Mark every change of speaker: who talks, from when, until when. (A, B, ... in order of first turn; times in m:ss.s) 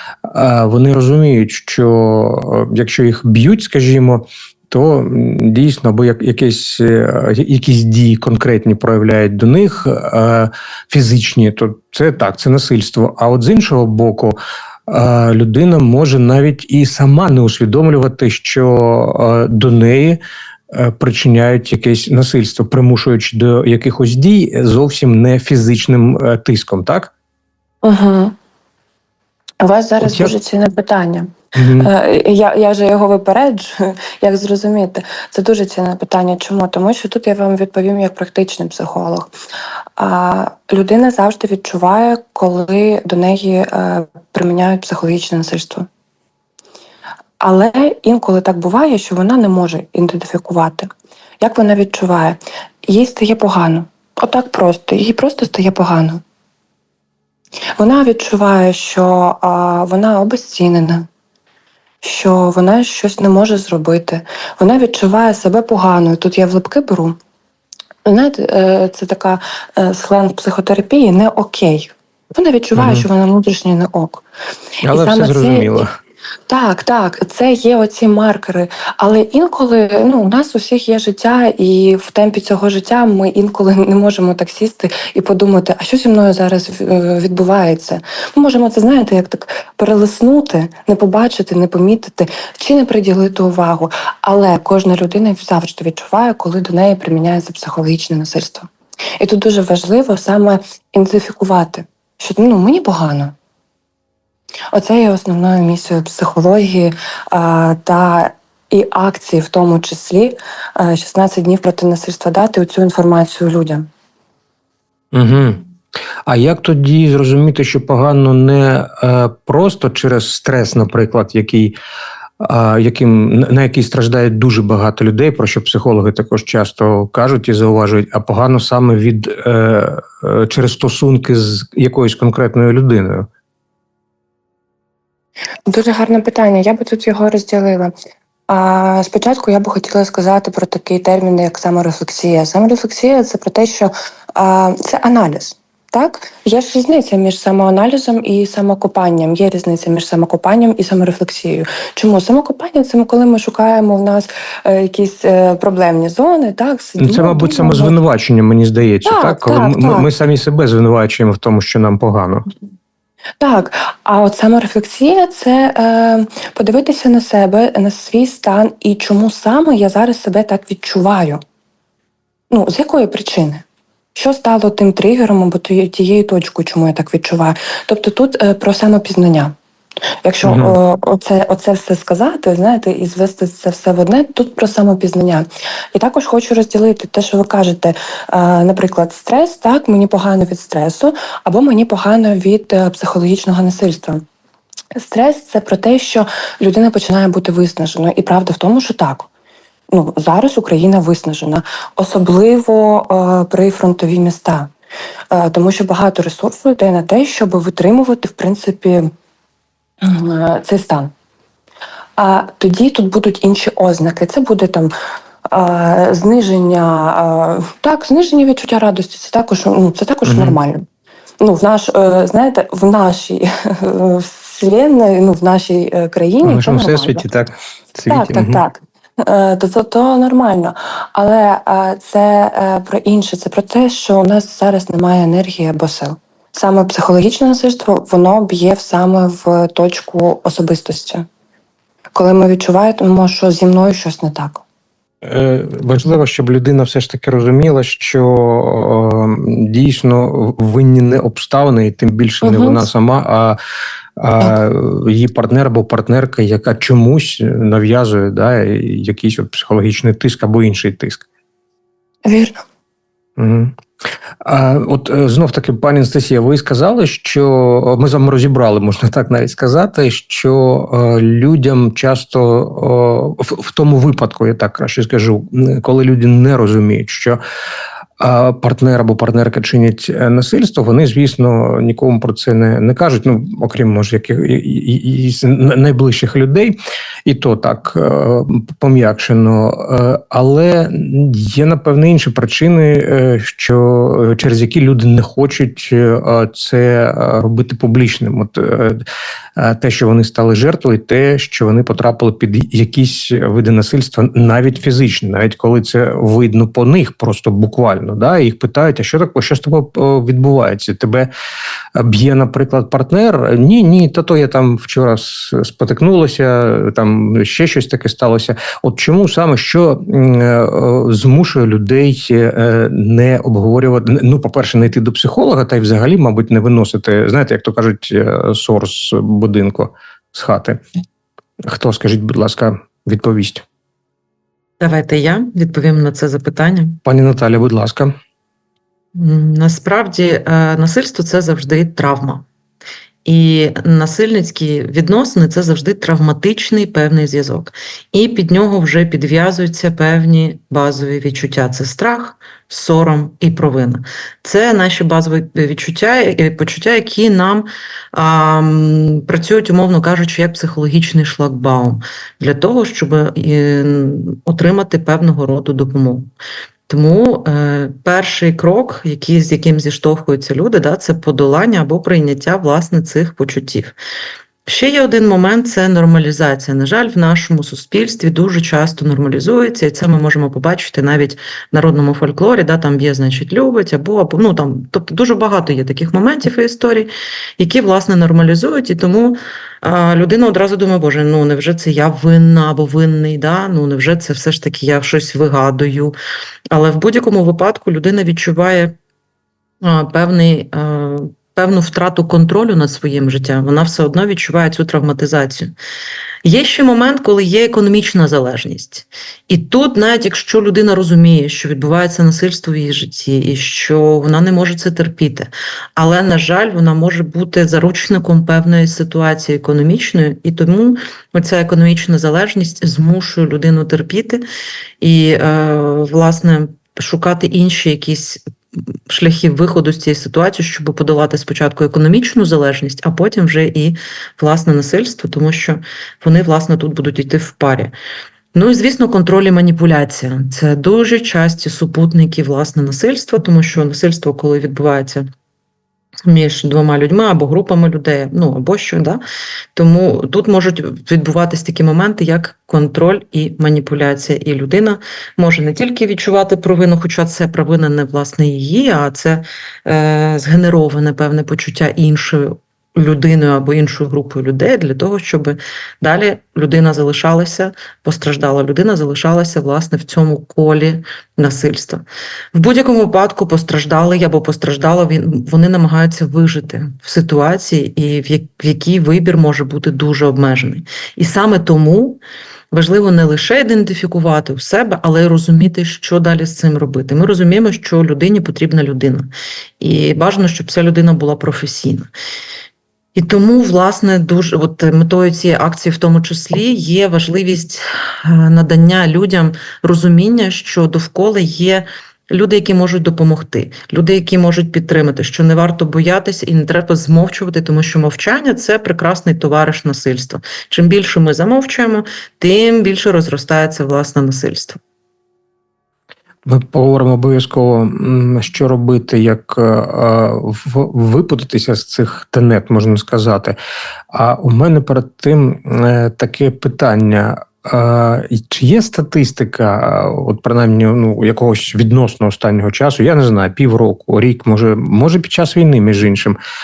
0:00.2-0:20.2 A
0:20.7-0:27.1 A
0:27.8-0:28.4 B
0:29.6-0:39.3 B
0:30.0-0:30.3 A
0:31.5-0:31.9 A
0:40.0-0:45.9 B
0:47.4-0:50.9 B
0:51.4-0:56.2 B
0:57.8-1:01.1 B
1:02.0-1:07.2 B
1:08.1-1:14.3 B
1:12.8-1:13.0 A
1:14.8-1:15.9 A
1:14.8-1:15.8 B
1:16.5-1:38.7 B
1:39.2-1:43.4 B
1:44.7-1:53.9 B
1:55.1-1:55.6 A
1:56.3-2:01.8 A
2:02.4-2:13.3 A
2:15.7-2:17.9 B
2:18.5-2:38.0 B
2:37.0-2:42.5 A
2:39.0-2:40.1 B
2:43.4-2:51.4 B
2:52.5-2:53.6 B
2:54.2-2:59.5 B
3:00.2-3:14.2 B
3:00.4-3:00.8 A
3:15.0-3:19.3 B
3:19.9-3:24.7 B
3:25.3-3:29.1 B
3:30.0-3:31.1 B
3:32.2-3:34.9 B
3:35.5-3:40.8 B
3:40.2-3:40.6 A
3:41.4-3:47.2 B
3:46.4-3:48.6 A
3:48.1-4:01.3 B
4:02.2-4:04.6 B
4:05.2-4:13.6 A
4:12.4-4:12.8 B
4:14.2-4:21.2 A
4:22.2-4:22.6 B
4:23.4-4:23.8 A
4:24.4-4:37.4 A
4:38.2-4:59.0 A
4:59.6-5:11.3 A
5:12.0-5:30.8 A
5:31.6-5:33.6 A
5:34.8-5:37.0 C
5:37.0-5:38.2 A
5:39.2-5:42.4 C
5:43.2-6:06.3 C
6:06.9-6:14.0 C
6:14.7-6:36.2 C
6:36.7-6:39.0 C
6:39.8-6:45.7 C
6:46.4-7:04.4 C
7:05.0-7:08.4 C
7:09.1-7:17.9 C
7:18.5-7:25.3 C
7:26.3-7:29.2 C
7:29.8-7:52.0 C
7:52.5-8:02.2 C
8:02.7-8:12.1 C
8:13.2-8:34.8 C
8:36.4-8:43.6 A
8:44.1-8:56.4 A